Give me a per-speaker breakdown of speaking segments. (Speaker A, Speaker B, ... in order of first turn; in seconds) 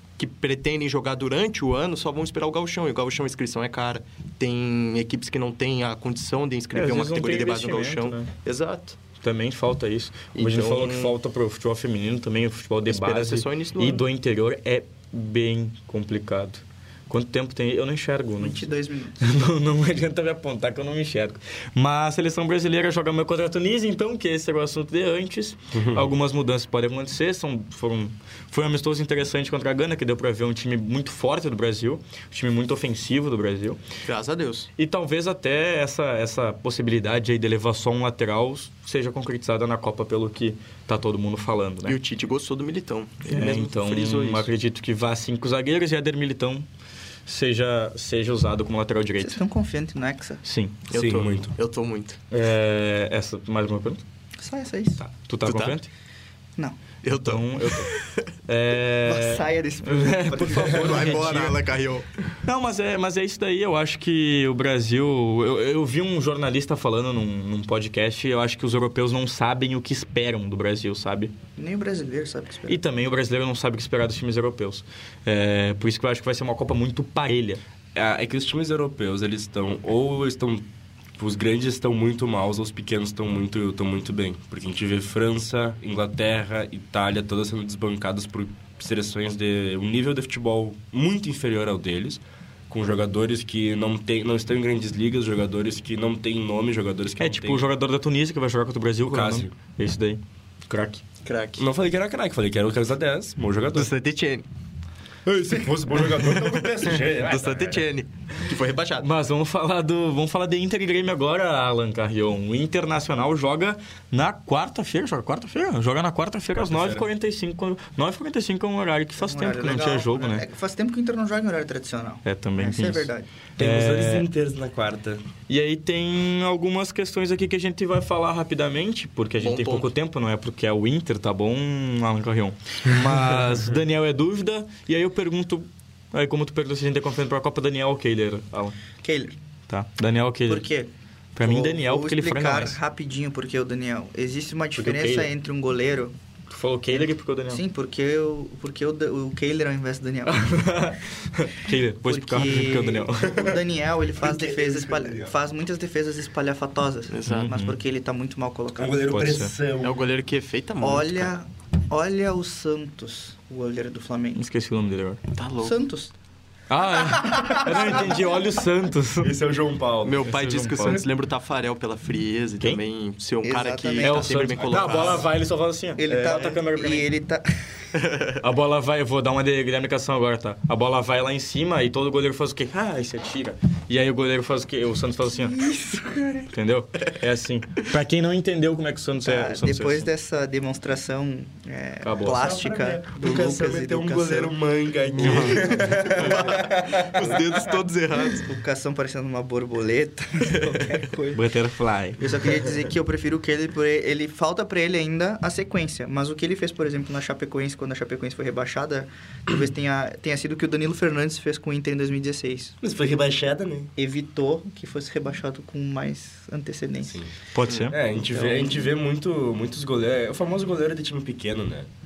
Speaker A: 0.2-9.0, 10.3-11.2, 12.8-14.0, 34.0-34.7, 41.9-44.5, 50.9-52.2, 55.4-55.8, 57.0-58.2, 60.4-62.1, 101.2-101.7, 103.7-104.4, 106.0-109.1, 129.4-129.9, 157.1-157.5, 159.8-161.3, 165.3-165.8, 170.0-175.3, 193.2-193.6, 195.2-198.5
Speaker B: 6.7-8.3, 9.2-18.7, 19.2-33.8, 34.8-42.0, 43.3-46.7, 47.2-49.4, 50.4-50.8, 52.3-54.0, 55.0-55.9, 57.2-57.9, 58.5-61.6, 62.5-71.3, 72.7-77.6, 97.2-101.0, 109.0-120.4, 122.2-124.3, 125.5-138.8, 139.7-140.7, 141.3-142.8, 144.8-145.3, 146.5-147.6, 150.3-153.4, 157.2-157.8, 159.1-159.5, 164.3-165.2, 166.7-169.3, 170.2-171.0, 174.0-177.1, 178.4-185.6, 186.5-190.1, 192.0-192.6, 201.3-202.2, 217.5-218.0
Speaker C: 18.4-19.3, 49.2-50.4, 54.4-55.0, 59.0-61.4, 71.6-72.8, 119.2-123.3, 139.0-139.3, 140.5-146.1, 146.9-150.6, 152.0-159.0, 160.8-164.4, 165.6-166.1, 167.1-168.4, 173.4-175.2, 176.0-177.4, 185.5-186.5, 189.2-194.5, 195.2-196.7, 198.1-201.4, 202.2-212.8, 213.9-217.2, 218.2-218.8
Speaker D: 25.7-26.1, 50.9-51.5, 77.9-80.7, 81.2-97.6, 99.0-99.5, 101.6-103.9, 105.2-107.8, 116.6-117.0, 123.6-125.2, 153.2-153.6, 154.2-155.3, 158.8-160.0, 169.2-170.3, 192.2-197.4, 212.8-213.9, 217.9-221.9